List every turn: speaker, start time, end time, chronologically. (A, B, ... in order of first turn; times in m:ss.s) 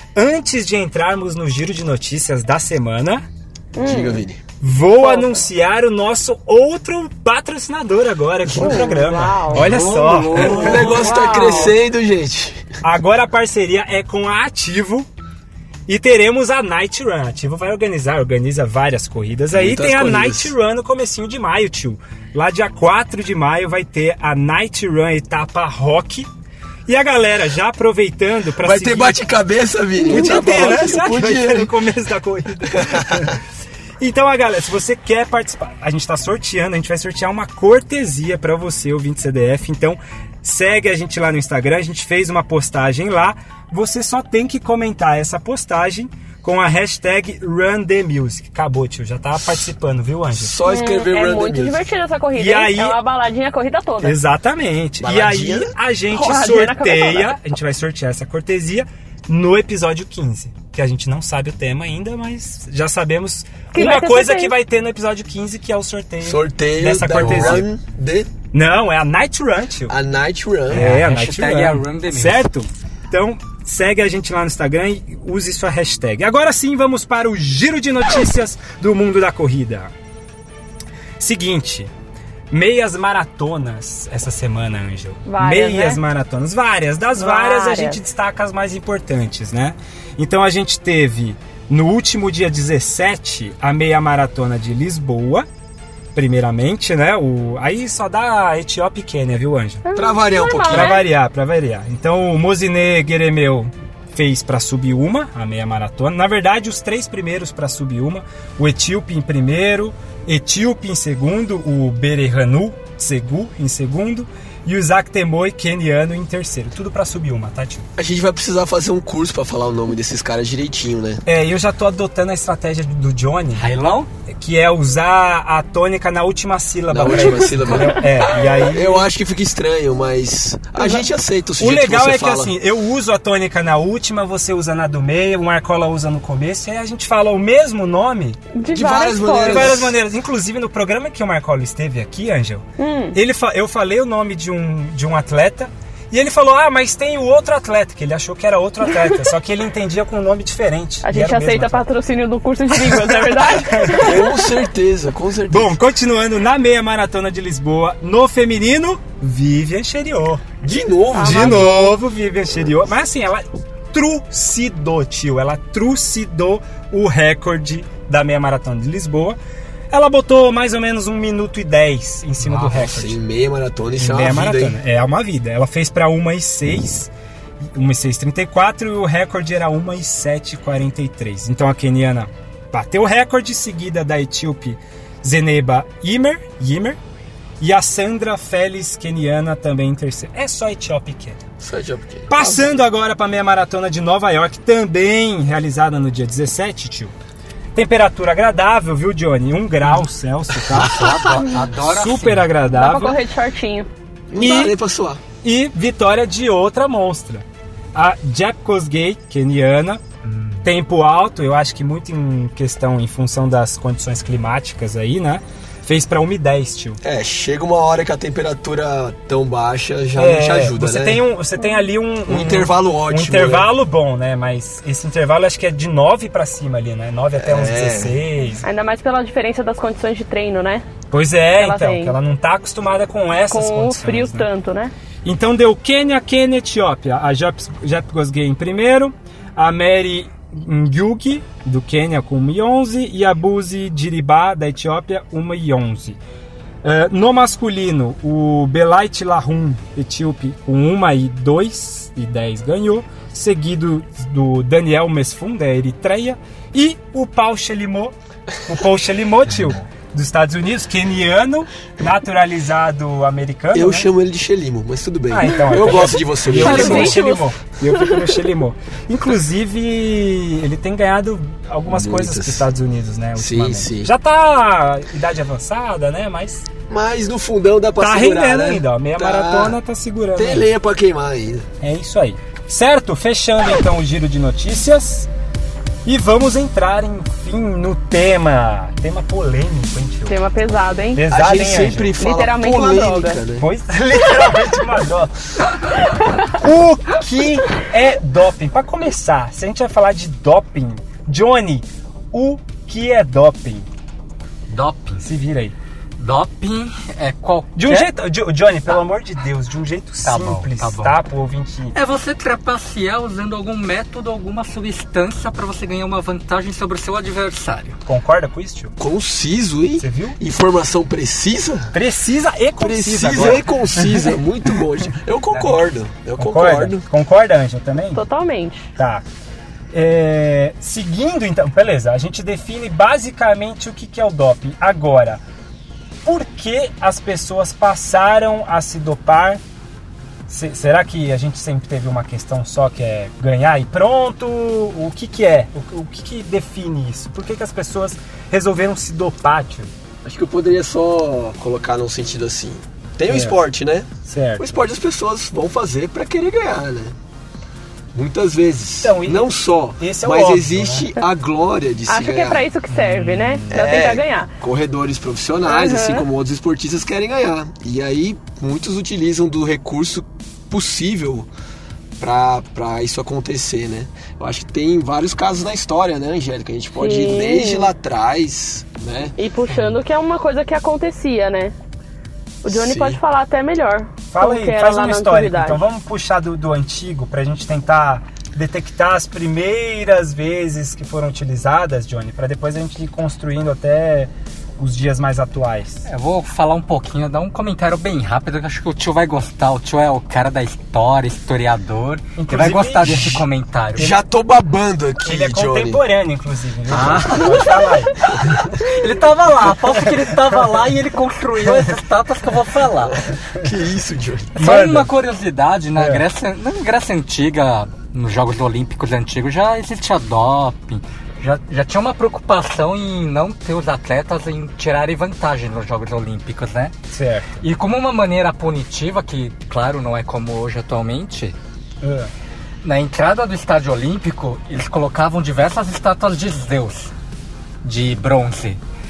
0:00.1-0:03.2 A
0:03.7-0:04.2 B
0:03.8-0:04.4 C
0:04.6-0:11.1 A
0:04.9-0:05.4 B
0:08.5-0:12.7 C
0:08.6-0:09.6 B
0:09.5-0:11.6 D
0:10.7-0:11.7 B
0:12.8-0:15.0 A
0:15.9-0:26.3 A
0:19.5-0:20.5 C
0:26.9-0:29.2 A
0:28.6-0:31.7 C
0:30.0-0:33.4 A
0:30.1-0:30.5 B
0:32.7-0:33.3 C
0:34.0-0:50.6 A
0:50.3-0:51.9 C
0:50.6-0:54.2 B
0:52.3-0:53.0 A
0:54.0-1:07.7 A
0:55.0-0:55.7 C
0:56.1-0:57.4 B
1:03.7-1:04.5 B
1:06.2-1:08.3 C
1:07.2-1:07.5 D
1:08.5-1:09.9 A
1:09.9-1:10.9 C
1:10.7-1:19.9 A
1:10.7-1:12.4 D
1:21.2-1:21.9 A
1:22.5-1:35.4 A
1:25.2-1:26.0 B
1:27.2-1:28.0 B
1:36.1-1:39.8 A
1:39.8-1:41.0 B
1:39.9-1:40.9 C
1:40.7-1:57.8 A
1:58.0-2:01.2 C
2:01.2-2:03.7 A
2:03.6-2:04.1 D
2:04.3-2:09.1 A
2:06.9-2:08.1 C
2:08.6-2:12.5 C
2:11.6-2:18.4 A
2:18.5-2:19.8 B
2:18.7-2:19.9 C
2:19.4-2:31.9 A
2:22.8-2:23.2 B
2:31.0-2:34.4 B
2:32.7-2:34.3 A
2:33.9-2:35.7 C
2:35.5-2:40.5 A
2:40.6-2:41.7 C
2:41.1-2:41.9 B
2:41.1-2:49.4 A
2:49.9-2:53.2 A
2:52.5-2:54.8 C
2:54.0-3:07.0 A
3:07.6-3:11.4 A
3:11.6-3:12.7 C
3:12.3-3:17.1 A
3:17.7-3:23.2 A
3:20.7-3:22.5 D
3:20.7-3:21.4 C
3:22.7-3:23.9 B
3:24.3-3:25.2 C
3:24.3-3:24.8 A
3:25.4-3:30.0 A
3:30.2-3:30.6 D
3:30.6-3:37.0 A
3:37.0-3:41.2 C
3:40.1-3:48.6 A
3:42.2-3:43.7 C
3:47.4-3:48.2 C
3:48.6-3:50.8 B
3:51.1-3:54.5 A
3:51.6-3:52.2 B
3:53.5-3:54.9 B
3:55.2-4:06.2 A
4:06.8-4:18.1 A
4:18.6-4:24.1 A
4:23.7-4:27.2 C
4:25.3-4:36.7 A
4:26.6-4:28.4 B
4:31.9-4:32.7 C
4:33.4-4:34.1 C
4:36.9-4:39.8 C
4:38.0-4:40.7 A
4:40.4-4:41.7 C
4:41.8-4:45.3 A
4:46.0-4:50.4 A
4:50.3-4:51.3 B
4:51.1-4:52.2 A
4:51.3-4:53.7 C
4:52.2-4:53.4 B
4:53.6-4:55.3 A
4:56.2-5:03.9 A
5:04.7-5:05.2 D
5:05.2-5:05.7 A
5:06.2-5:08.1 D
5:07.7-5:11.9 A
5:10.2-5:11.1 D
5:11.9-5:18.0 D
5:18.0-5:18.9 A
5:19.0-5:21.9 C
5:20.0-5:20.4 A
5:21.9-5:24.2 A
5:22.8-5:27.0 C
5:26.4-5:28.2 A
5:28.1-5:28.9 B
5:29.0-5:29.2 A
5:29.9-5:35.4 A
5:36.2-5:39.6 A
5:40.5-5:49.9 A
5:50.2-5:57.1 C
5:53.3-5:53.6 A
5:54.2-5:54.8 A
5:58.1-6:02.6 C
5:59.0-6:01.1 A
6:02.1-6:04.5 B
6:02.9-6:04.0 A
6:03.7-6:11.5 C
6:05.6-6:06.2 B
6:12.2-6:19.3 C
6:17.0-6:17.9 B
6:19.4-6:21.7 B
6:19.7-6:20.0 D
6:22.6-6:25.8 B
6:22.6-6:23.2 C
6:24.3-6:36.0 A
6:36.0-6:44.2 D
6:42.4-6:43.4 A
6:43.9-6:46.0 C
6:45.2-6:48.7 A
6:46.9-6:47.8 D
6:48.6-6:53.2 D
6:53.1-6:54.6 C
6:54.6-6:55.1 A
6:54.6-7:06.9 D
6:56.0-6:56.2 A
7:07.1-7:07.5 A
7:07.6-7:11.5 D
7:12.0-7:12.3 A
7:12.8-7:17.1 D
7:17.8-7:18.8 D